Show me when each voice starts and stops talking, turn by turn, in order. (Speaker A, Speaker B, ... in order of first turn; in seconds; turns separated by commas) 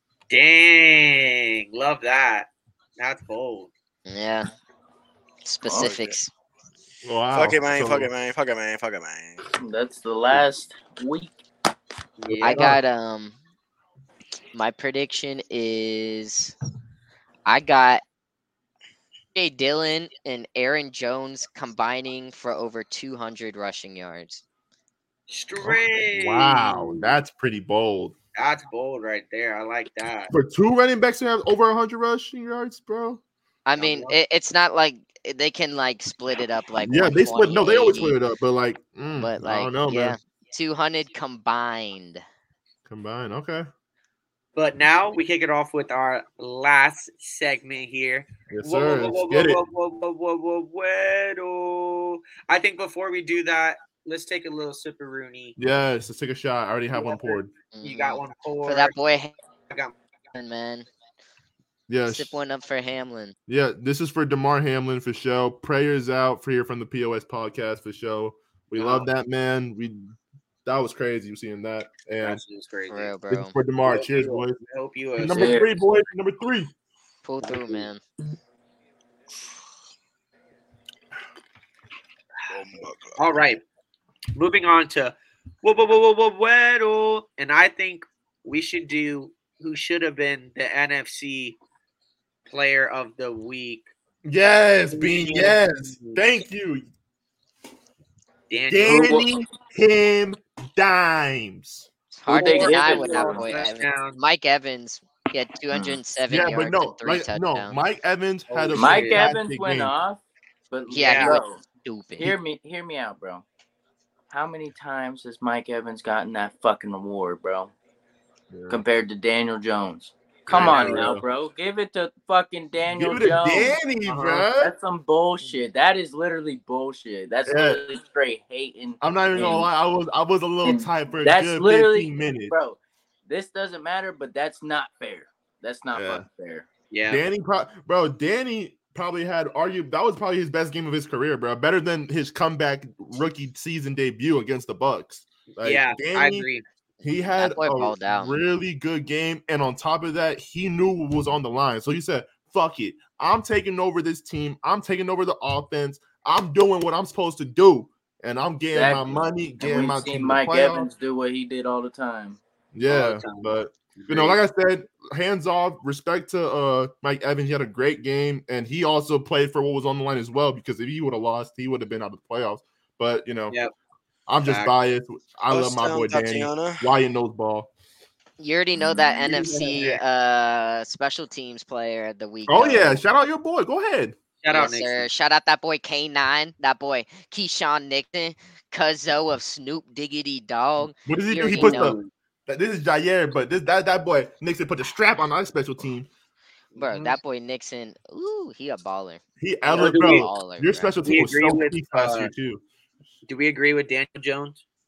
Speaker A: 0.3-3.7, Speaker B: 4.1-4.5, Speaker B: 5.4-6.3, Speaker C: 5.7-6.2, Speaker D: 7.0-8.1, Speaker C: 7.3-9.4, Speaker E: 9.4-11.3, Speaker A: 12.2-12.7, Speaker D: 12.3-12.8, Speaker B: 12.4-13.3, Speaker B: 14.5-16.5, Speaker B: 17.5-18.0, Speaker B: 19.4-24.4, Speaker A: 25.3-27.2, Speaker D: 25.6-28.1, Speaker A: 28.4-30.3, Speaker D: 30.3-33.2, Speaker B: 33.6-38.2, Speaker A: 33.8-34.2, Speaker D: 36.8-40.2, Speaker B: 39.2-42.2, Speaker D: 42.9-43.7, Speaker A: 44.6-55.6, Speaker D: 48.5-49.6, Speaker D: 55.6-57.5, Speaker A: 56.9-59.0, Speaker B: 57.7-59.3, Speaker A: 59.7-60.0, Speaker B: 60.3-60.9, Speaker D: 61.9-62.3, Speaker B: 62.0-63.4, Speaker D: 63.5-72.4, Speaker A: 68.8-69.1, Speaker A: 72.2-73.1, Speaker B: 72.9-73.6, Speaker D: 73.3-74.6, Speaker A: 73.8-75.7, Speaker D: 75.2-76.7, Speaker E: 75.3-75.7, Speaker B: 77.2-78.0, Speaker C: 82.5-83.2, Speaker A: 83.2-83.6, Speaker A: 84.3-91.6, Speaker A: 92.5-93.9, Speaker D: 94.2-96.9, Speaker A: 94.9-96.2, Speaker A: 98.5-99.3, Speaker D: 98.7-101.9, Speaker B: 102.1-107.8, Speaker E: 102.3-103.5, Speaker A: 102.3-104.2, Speaker E: 105.7-106.0, Speaker D: 106.3-109.9, Speaker A: 108.5-109.3, Speaker E: 108.7-111.6, Speaker B: 110.9-112.3, Speaker A: 110.9-111.4, Speaker E: 112.2-113.4, Speaker E: 114.3-117.7, Speaker D: 118.5-118.8, Speaker E: 118.7-123.8, Speaker D: 120.5-121.2, Speaker A: 120.5-121.1, Speaker D: 122.9-124.7, Speaker A: 124.1-124.4, Speaker E: 124.5-129.7, Speaker D: 127.5-127.8, Speaker D: 129.0-132.5, Speaker E: 130.6-136.7, Speaker D: 135.9-136.3, Speaker A: 136.9-137.2, Speaker D: 137.1-146.5, Speaker A: 145.5-146.6, Speaker D: 147.0-160.9, Speaker B: 147.1-148.4, Speaker E: 158.7-162.4, Speaker D: 162.7-173.6, Speaker A: 162.9-164.4, Speaker D: 174.3-177.7, Speaker A: 174.4-174.7, Speaker C: 175.5-176.8, Speaker B: 178.4-183.0, Speaker A: 178.8-180.0, Speaker D: 182.5-184.2, Speaker A: 184.4-185.1, Speaker B: 184.5-192.0, Speaker D: 191.0-196.1, Speaker A: 191.5-192.1, Speaker A: 196.7-197.2, Speaker B: 196.8-200.9, Speaker D: 199.4-202.6, Speaker A: 199.7-200.3, Speaker A: 201.0-202.3, Speaker A: 203.3-204.6